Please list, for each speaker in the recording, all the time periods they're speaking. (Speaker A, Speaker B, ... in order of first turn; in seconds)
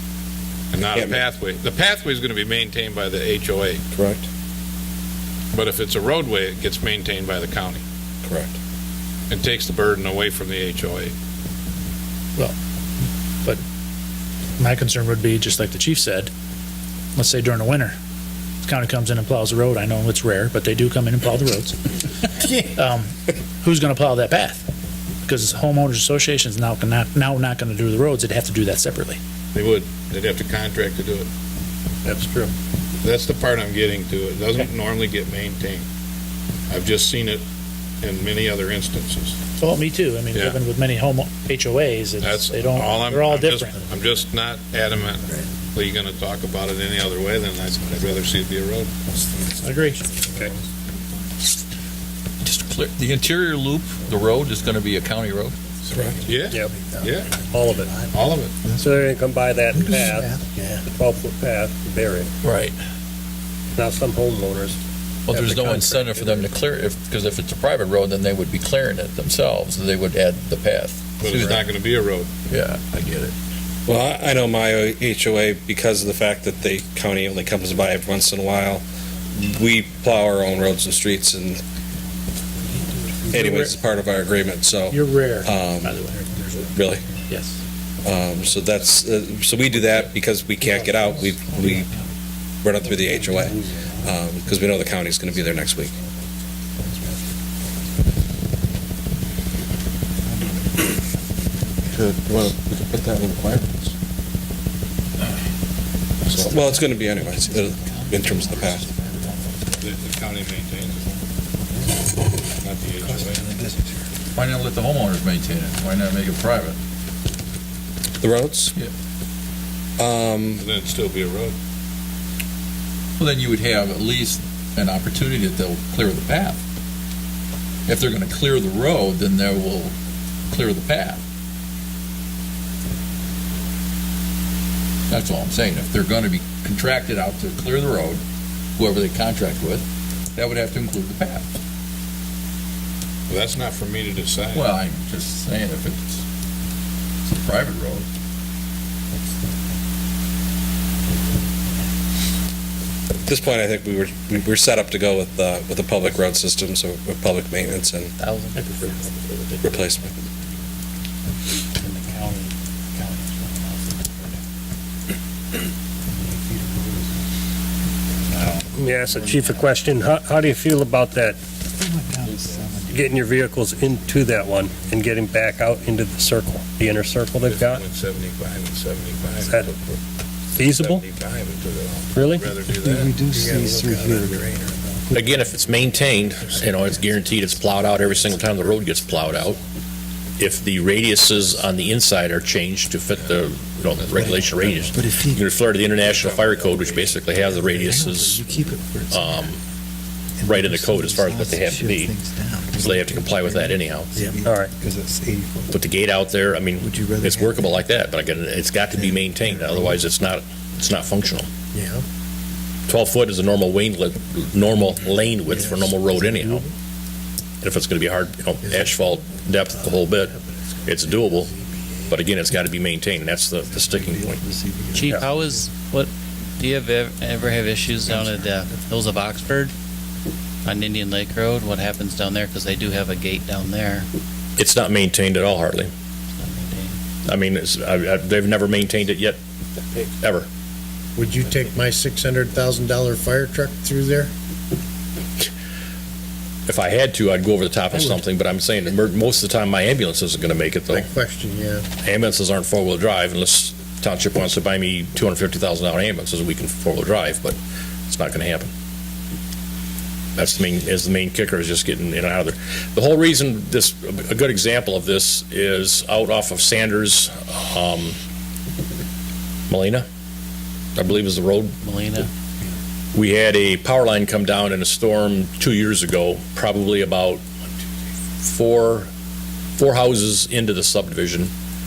Speaker A: 0.7-3.9, 5.5-7.8, 9.3-11.1, 29.5-31.3, 33.0-35.9, 36.7-37.4, 38.0-39.4, 40.3-40.6, 42.2-48.9, 55.9-57.4, 58.1-58.5, 71.2-72.3, 109.8-111.1, 112.6-113.4, 120.6-121.5, 143.3-144.7, 177.4-180.0, 180.6-183.2, 194.0-194.9, 196.0-197.1
Speaker B: 0.9-1.2, 3.9-4.2, 8.2-8.5, 56.0-56.2, 73.9-81.6, 83.3-86.0, 86.7-87.0, 88.0-91.9, 92.6-95.9, 101.9-103.9, 106.3-108.9, 118.2-118.7, 120.0-120.6, 153.3-158.1, 159.7-160.2
Speaker C: 14.6-16.3, 17.2-17.9, 18.6-21.8, 22.6-24.7, 25.2-29.2, 39.6-43.7, 49.6-50.0, 83.3-83.8, 84.9-86.3, 158.5-159.6
Speaker D: 32.0-32.5, 56.4-56.7, 57.5-57.9, 58.8-60.4, 60.9-62.3, 63.8-64.8, 65.3-66.4, 93.3-93.5, 168.7-171.4, 172.9-177.8, 179.4-179.7, 180.6-181.0, 182.2-182.5, 204.4-204.7
Speaker E: 47.8-48.5, 49.1-50.7, 56.0-60.8, 82.6-84.3, 86.3-87.1, 88.4-88.7, 91.7-92.0, 92.8-96.1, 96.8-98.1, 100.2-102.1, 106.2-109.9, 111.5-114.1, 161.8-164.4, 166.1-167.2, 168.3-169.6, 171.7-175.7, 182.7-189.6, 191.0-191.9, 194.1-195.5, 197.3-199.6, 200.4-205.8, 206.8-207.9, 208.9-210.1, 215.5-216.7, 219.7-220.0, 221.7-222.2, 223.6-225.7, 228.1-229.0
Speaker F: 52.4-55.6, 62.4-62.8, 65.3-71.7, 72.5-73.3, 114.3-116.8, 123.2-126.6, 127.9-129.9, 130.5-131.2, 135.1-138.2, 138.8-141.6, 144.5-146.2, 147.3-148.1
Speaker G: 158.2-159.0, 224.9-229.7, 230.7-234.1, 236.4-236.9, 271.8-272.3
Speaker H: 183.3-185.1, 211.7-212.1, 218.6-218.9, 221.0-221.5, 241.2-244.3, 250.9-251.9
Speaker I: 185.1-189.6, 190.4-198.5, 199.1-199.6, 200.4-202.2, 202.7-204.2, 205.7-211.5, 212.9-216.6, 217.6-221.5, 222.1-224.4, 234.6-235.9, 237.2-239.4, 240.2-240.5, 246.7-251.1, 252.0-258.7, 260.3-268.2, 269.7-270.1, 270.9-271.8, 273.1-277.4, 278.4-279.1, 279.8-281.5